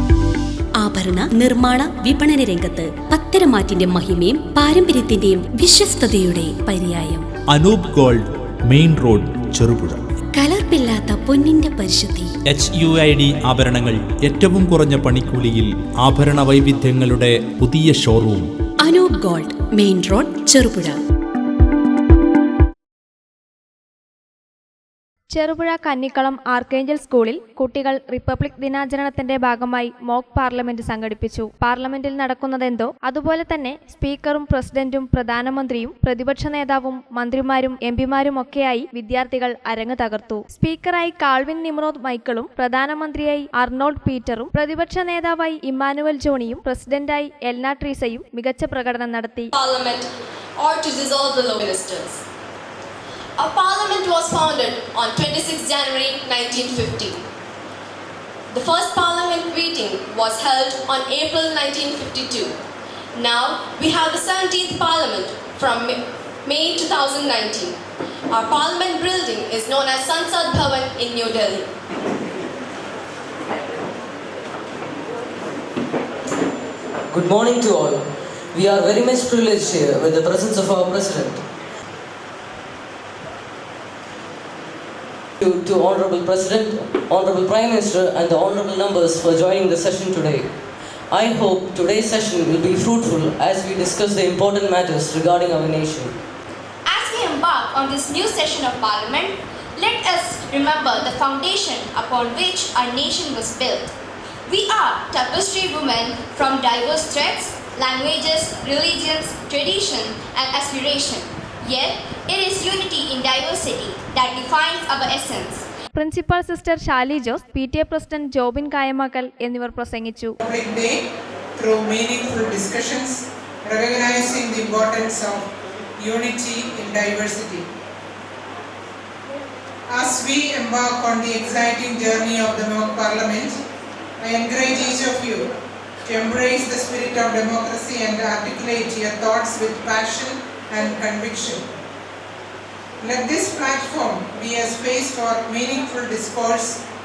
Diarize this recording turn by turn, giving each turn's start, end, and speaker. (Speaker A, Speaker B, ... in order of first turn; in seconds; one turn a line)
Speaker A: 0.8-7.3
Speaker B: 7.5-10.0
Speaker A: 10.3-12.3
Speaker B: 12.5-18.5
Speaker A: 18.8-21.0
Speaker C: 25.3-49.5
Speaker D: 49.5-52.2
Speaker D: 53.4-57.2
Speaker D: 58.5-62.5
Speaker D: 63.1-67.8
Speaker D: 68.3-71.7
Speaker E: 77.1-81.4
Speaker E: 85.4-90.5
Speaker E: 91.1-96.1
Speaker F: 96.8-103.9
Speaker F: 104.5-115.7
Speaker C: 115.9-120.4
Speaker G: 120.4-121.0
Speaker G: 121.6-127.6
Speaker G: 129.9-133.6
Speaker G: 134.2-135.5
Speaker G: 136.1-141.6
Speaker G: 143.0-146.8